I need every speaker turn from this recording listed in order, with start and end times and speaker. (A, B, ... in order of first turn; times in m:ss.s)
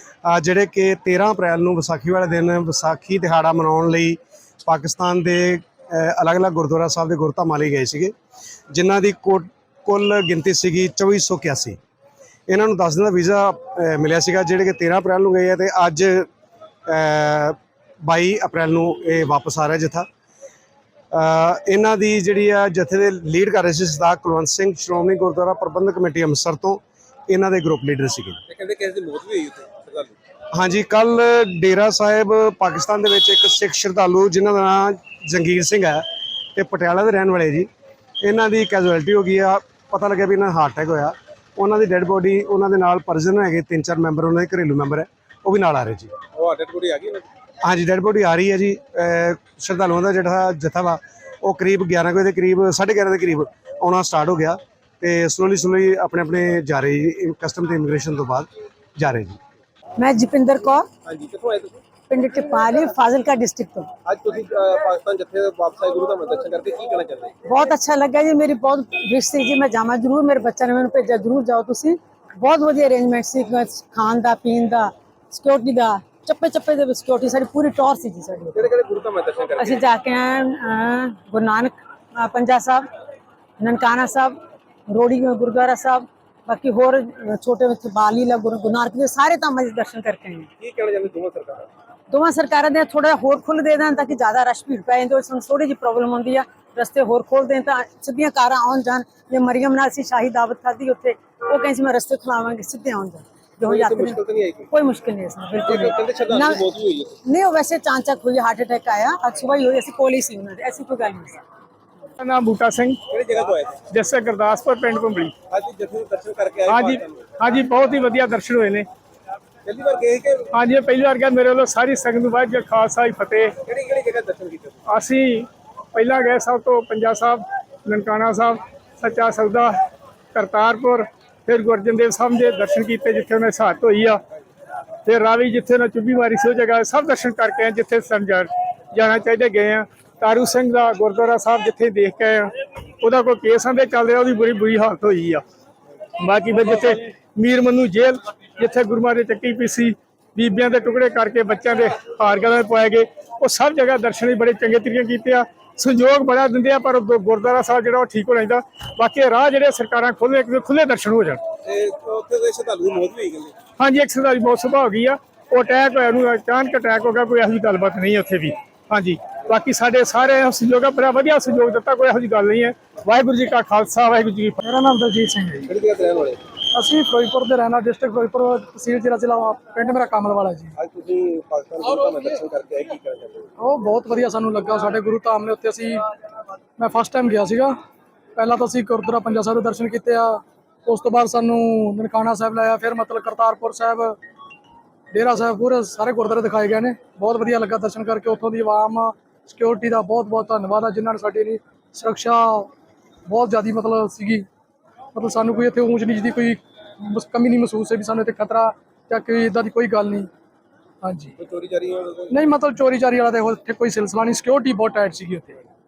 0:00.2-0:08.1 A
0:08.7-0:11.8 A
0:12.5-0:16.3 A
0:16.9-0:20.1 A
0:21.1-0:28.4 A
0:28.5-0:30.1 B
0:30.5-0:36.0 A
0:36.6-0:37.7 A
0:38.2-0:46.1 A
0:46.3-0:47.2 B
0:47.6-0:59.4 A
1:00.0-1:00.9 C
1:01.0-1:01.8 B
1:02.1-1:03.9 C
1:04.0-1:07.3 B
1:07.4-1:18.7 C
1:18.5-1:19.8 B
1:19.6-1:22.8 C
1:23.6-1:24.4 C
1:24.9-1:30.5 C
1:30.6-1:31.7 B
1:32.1-1:46.6 C
1:43.6-1:44.7 B
1:45.6-1:47.2 B
1:47.2-1:51.4 C
1:52.2-1:53.0 D
1:53.1-1:53.8 B
1:53.9-1:55.3 D
1:55.5-1:57.4 B
1:56.7-1:58.9 D
1:59.6-2:00.5 B
2:00.5-2:03.5 D
2:03.6-2:04.8 B
2:04.9-2:09.8 D
2:10.3-2:14.2 D
2:15.0-2:25.4 D
2:26.2-2:41.4 D
2:41.6-2:43.5 B
2:43.8-2:54.6 D
2:54.6-2:55.7 E
2:55.6-2:56.4 B
2:56.7-3:00.7 E
3:00.8-3:03.5 B
3:01.8-3:02.4 E
3:03.6-3:06.0 E
3:06.8-3:07.8 E
3:08.4-3:14.2 E
3:15.1-3:22.7 E
3:23.3-3:24.4 E
3:25.1-3:30.3 E
3:31.0-3:31.3 E
3:31.4-3:32.4 B
3:32.3-3:35.6 E